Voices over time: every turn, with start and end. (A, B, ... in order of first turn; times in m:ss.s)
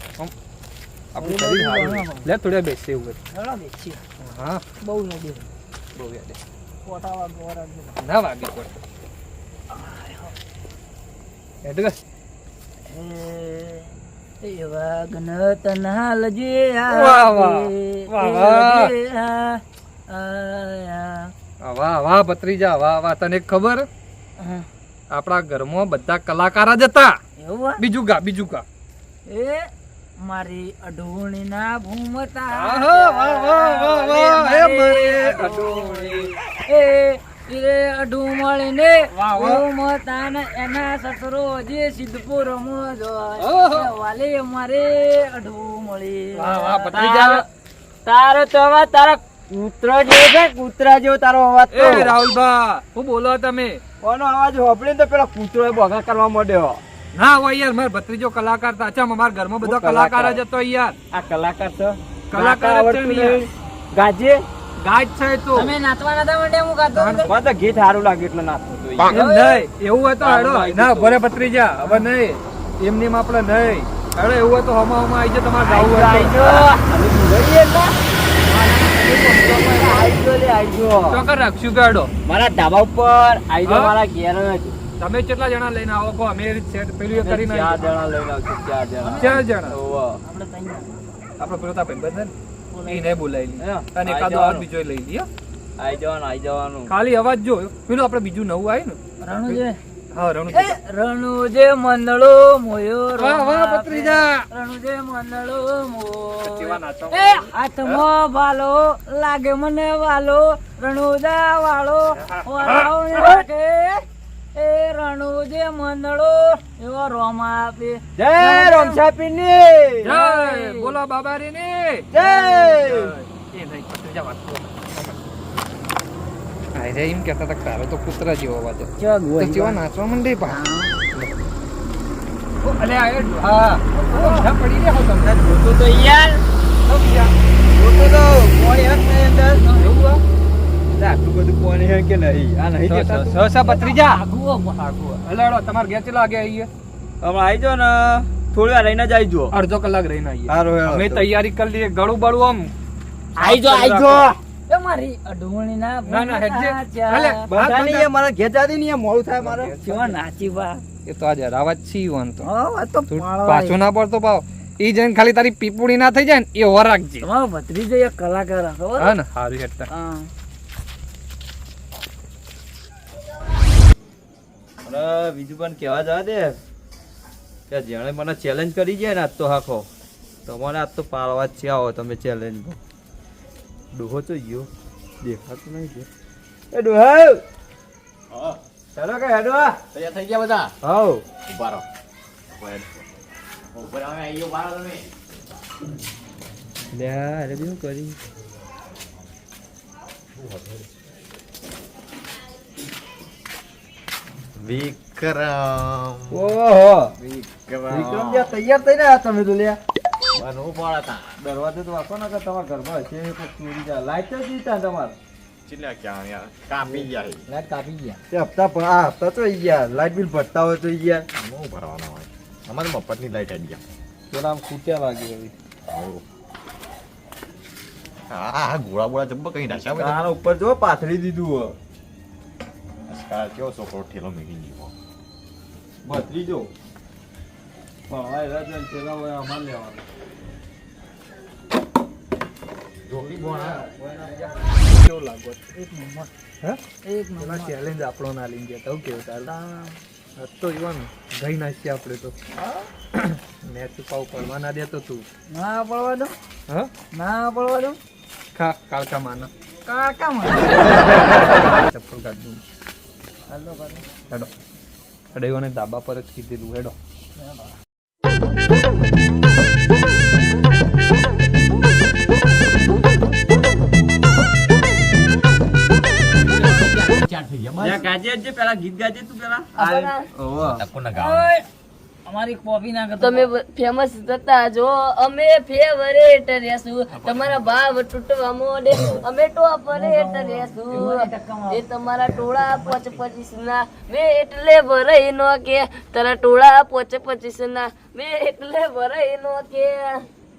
0:01.1-0:03.2 A
0:01.2-0:02.3 B
0:03.3-0:04.0 B
0:04.2-0:04.6 A
0:04.8-0:05.5 B
0:06.0-0:06.4 A
0:06.9-0:08.0 B
0:08.0-0:08.8 A
0:09.7-0:10.3 B
0:11.6-0:12.0 A
0:12.9-0:21.3 B
0:16.9-0:18.9 A
0:21.6-0:23.9 A
0:24.4-0:24.6 B
0:25.1-0:27.2 A
0:27.4-0:27.8 B
0:27.8-0:28.6 A
0:29.3-0:29.7 B
0:30.2-0:47.0 B
0:32.5-0:36.1 A
0:35.4-0:36.3 C
0:39.1-0:39.6 A
0:43.4-0:43.9 A
0:46.4-0:47.4 A
0:46.9-0:47.4 C
0:48.1-0:52.2 C
0:51.7-0:53.8 A
0:54.0-0:56.8 C
0:57.1-1:01.0 A
0:59.6-1:00.4 C
1:01.1-1:04.4 C
1:02.3-1:03.5 A
1:04.8-1:05.7 A
1:05.5-1:07.3 B
1:07.0-1:07.3 A
1:07.2-1:09.2 C
1:09.1-1:16.7 A
1:09.1-1:09.6 B
1:10.2-1:11.2 C
1:15.6-1:18.0 C
1:18.5-1:20.0 A
1:19.3-1:21.2 C
1:21.1-1:22.1 A
1:22.2-1:24.8 C
1:23.6-1:24.0 A
1:25.0-1:27.9 A
1:27.1-1:30.2 C
1:29.0-1:29.5 B
1:29.2-1:29.8 A
1:30.2-1:30.9 B
1:31.4-1:32.3 A
1:32.7-1:33.1 B
1:32.9-1:35.3 A
1:33.6-1:34.7 C
1:35.8-1:36.9 C
1:36.9-1:40.8 A
1:39.2-1:39.8 B
1:40.5-1:54.0 B
1:43.2-1:44.4 A
1:46.4-1:48.0 A
1:52.2-1:52.9 A
1:54.6-1:59.0 B
1:58.2-2:00.1 C
2:00.0-2:01.0 B
2:00.0-2:02.1 A
2:02.1-2:03.1 C
2:02.2-2:02.8 B
2:02.8-2:05.1 A
2:06.7-2:10.6 A
2:09.0-2:09.8 B
2:10.5-2:11.0 B
2:12.6-2:15.5 A
2:13.9-2:14.5 B
2:15.2-2:16.4 C
2:16.8-2:17.3 A
2:17.7-2:19.7 C
2:19.6-2:19.9 B
2:19.8-2:20.2 A
2:20.9-2:23.4 C
2:22.9-2:24.2 A
2:23.6-2:24.9 B
2:24.8-2:26.7 A
2:27.2-2:29.6 C
2:29.5-2:32.7 A
2:30.5-2:31.3 C
2:33.4-2:34.4 C
2:33.4-2:34.3 A
2:34.7-2:37.5 B
2:36.1-2:38.1 A
2:37.5-2:39.8 C
2:39.4-2:40.2 A
2:39.8-2:40.8 B
2:41.0-2:42.5 A
2:42.4-2:43.8 B
2:43.1-2:47.3 A
2:47.2-2:49.1 B
2:49.0-2:49.9 A
2:49.9-2:50.3 B
2:54.8-2:56.6 C
2:57.7-2:59.9 C
3:00.5-3:02.8 C
3:03.9-3:04.7 C
3:05.2-3:06.1 C
3:06.7-3:07.4 C
3:08.3-3:08.6 D
3:09.0-3:09.8 C
3:09.9-3:10.7 D
3:10.8-3:11.2 C
3:11.5-3:11.8 D
3:12.6-3:13.0 D
3:13.7-3:15.1 D
3:16.9-3:18.2 C
3:20.4-3:20.9 D
3:24.6-3:26.5 D
3:26.3-3:29.8 C
3:27.6-3:28.5 D
3:30.3-3:31.3 D
3:31.4-3:35.2 C
3:35.7-3:37.4 D
3:37.6-3:38.1 B
3:38.3-3:41.2 C
3:41.4-3:43.8 D
3:44.3-3:45.5 C
3:45.9-3:46.2 D
3:48.3-3:50.2 D
3:49.9-3:51.8 C
3:53.1-3:54.9 D
3:56.0-3:56.7 C
3:58.1-4:00.0 C
4:03.1-4:03.8 D
4:03.5-4:05.6 A
4:05.8-4:06.3 B
4:07.0-4:07.8 B
4:07.4-4:09.5 A
4:09.5-4:10.0 B
4:10.4-4:12.4 A
4:13.1-4:15.3 A
4:15.5-4:16.3 B
4:17.1-4:18.0 B
4:18.6-4:19.5 A
4:19.9-4:21.0 B
4:21.0-4:22.6 A
4:23.5-4:24.0 B
4:25.3-4:27.0 A
4:36.4-4:38.1 D
4:37.8-4:40.8 C
4:39.8-4:40.2 E
4:40.6-4:41.5 D
4:41.2-4:41.6 B
4:42.3-4:43.5 B
4:43.2-5:00.3 E
4:49.9-4:53.2 B